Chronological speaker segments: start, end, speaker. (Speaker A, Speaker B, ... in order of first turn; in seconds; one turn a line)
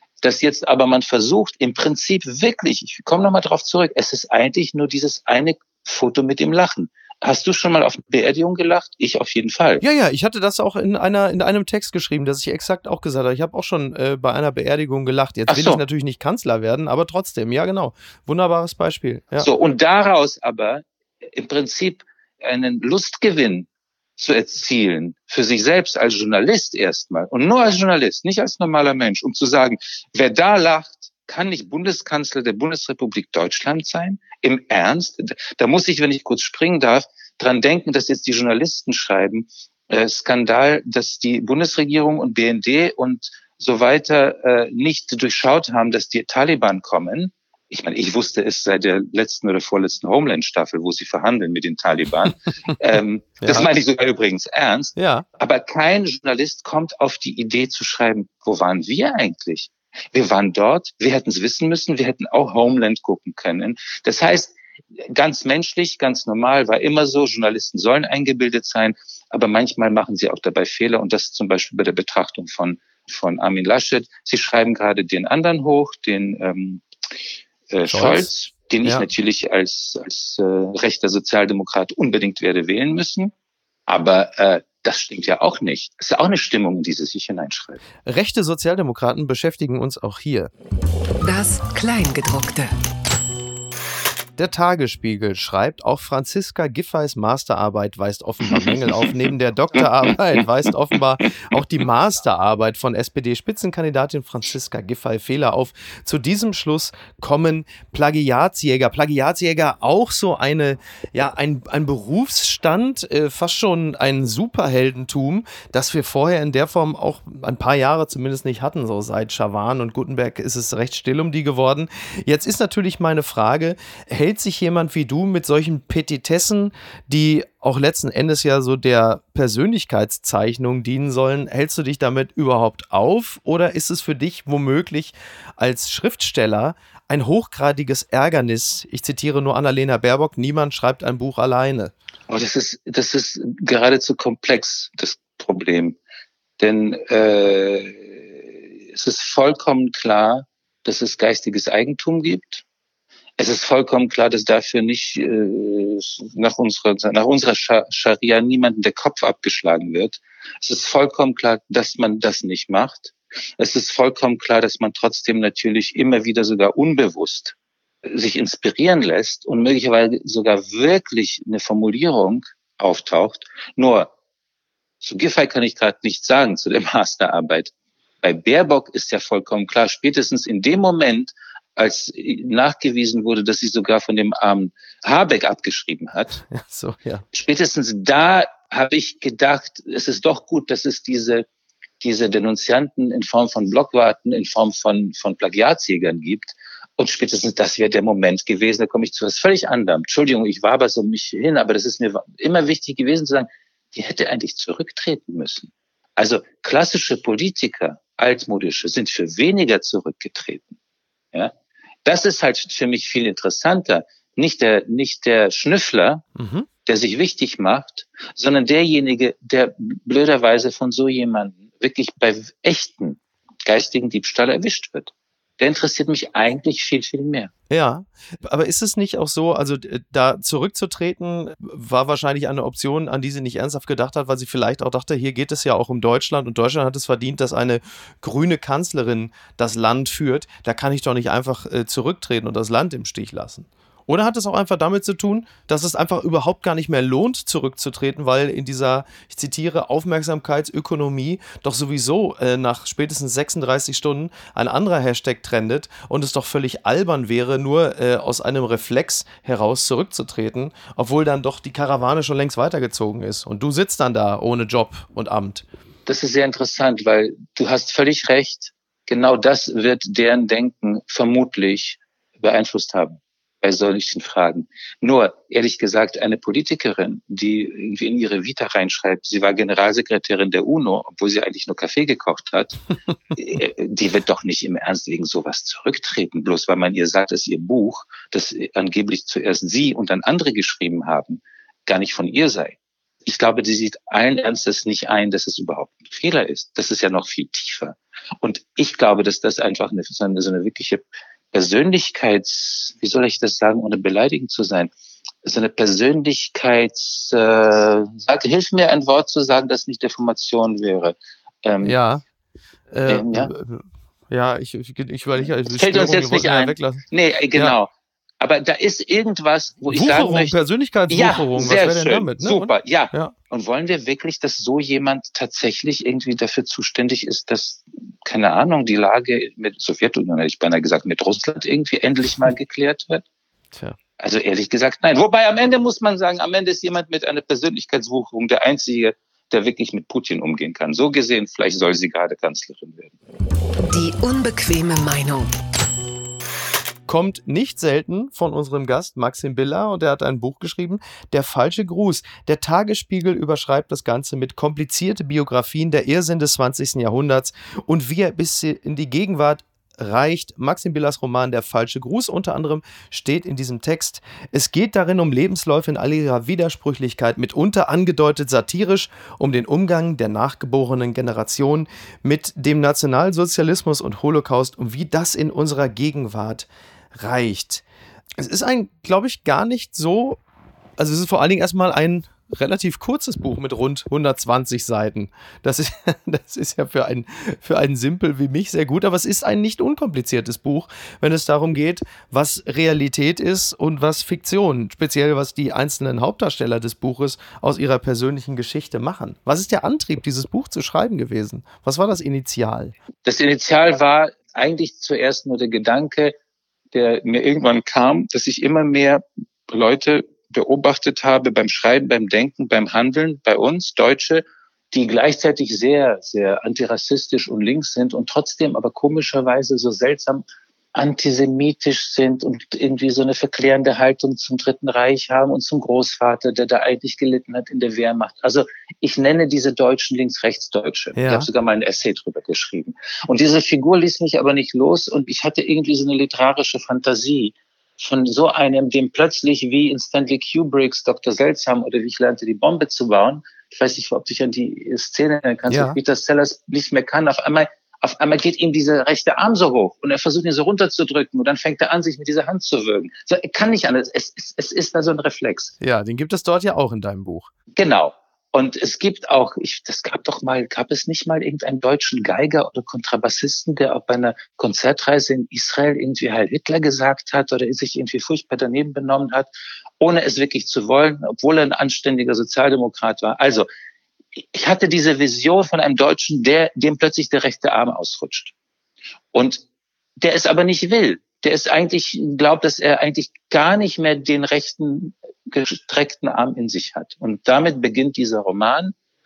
Speaker A: 0.2-9.8
Speaker B: 9.8-19.5
Speaker A: 15.5-15.8
Speaker A: 19.4-64.5
Speaker B: 53.4-53.7
Speaker B: 55.0-55.2
Speaker A: 65.1-76.8
Speaker A: 77.7-83.3
Speaker B: 77.8-78.3
Speaker A: 83.9-87.8
Speaker B: 88.0-90.5
Speaker C: 91.2-92.7
Speaker B: 94.4-141.9
Speaker A: 142.3-146.0
Speaker A: 146.6-152.6
Speaker A: 153.4-174.1
Speaker A: 175.0-177.7
Speaker A: 178.2-186.4
Speaker B: 186.5-187.2
Speaker A: 187.3-191.4
Speaker A: 192.0-210.8
Speaker A: 212.0-216.2
Speaker B: 216.3-216.7
Speaker A: 216.8-227.5
Speaker B: 227.7-265.6
Speaker A: 266.1-282.8
Speaker A: 283.3-304.9
Speaker A: 305.4-311.9
Speaker B: 311.8-312.2
Speaker B: 312.9-317.8
Speaker A: 313.1-313.5
Speaker A: 315.7-320.5
Speaker B: 319.9-323.3
Speaker A: 321.1-333.2
Speaker A: 334.2-343.1
Speaker C: 343.8-345.5
Speaker B: 347.1-377.8
Speaker B: 378.4-380.4
Speaker B: 381.0-402.9
Speaker A: 403.2-406.3
Speaker A: 406.9-455.7
Speaker B: 431.1-431.5
Speaker B: 445.7-445.9
Speaker B: 455.8-457.5
Speaker A: 457.8-469.5
Speaker A: 470.0-473.7
Speaker A: 474.4-478.5
Speaker A: 479.3-479.6
Speaker A: 480.2-488.9